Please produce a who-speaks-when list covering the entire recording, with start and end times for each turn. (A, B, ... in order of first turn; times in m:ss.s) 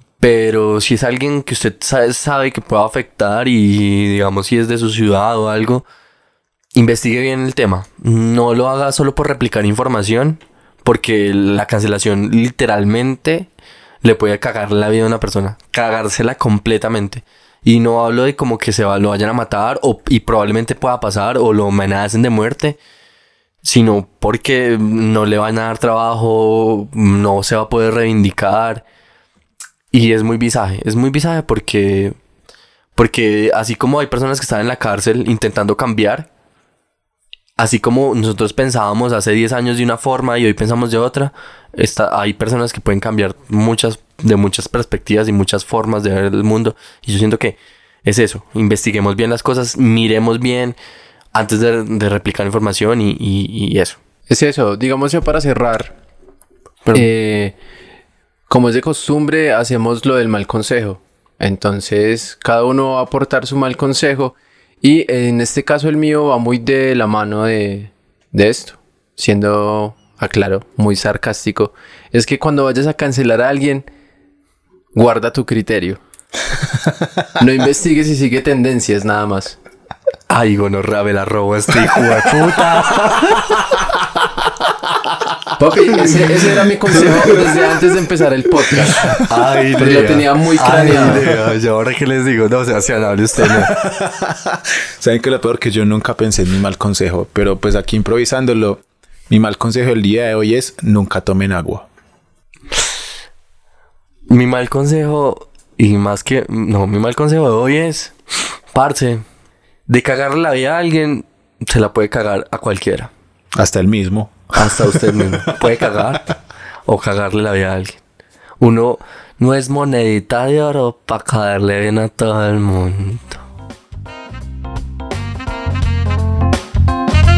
0:00.2-0:05.9 A
0:06.8-0:13.5 A
0:14.0-0:22.8 A
0:23.6-0:28.8 A
0:29.9-0:32.2 A
0:33.0-0:36.3 A
0:37.6-0:50.8 A
0:51.3-0:54.0 A
0:54.3-0:56.0 B
0:56.9-0:57.6 B
0:58.5-1:13.9 B
1:14.9-1:16.0 B
1:17.4-1:19.6 B
1:20.3-1:23.9 A
1:25.6-1:29.1 B
1:27.2-1:27.6 C
1:29.1-1:33.8 A
1:29.8-1:31.2 B
1:30.7-1:31.4 C
1:33.4-1:41.9 C
1:44.3-1:48.2 A
1:48.7-1:49.2 A
1:49.9-1:53.1 A
1:53.6-1:55.9 C
1:54.6-1:56.3 A
1:56.9-1:58.0 A
1:58.6-2:03.4 A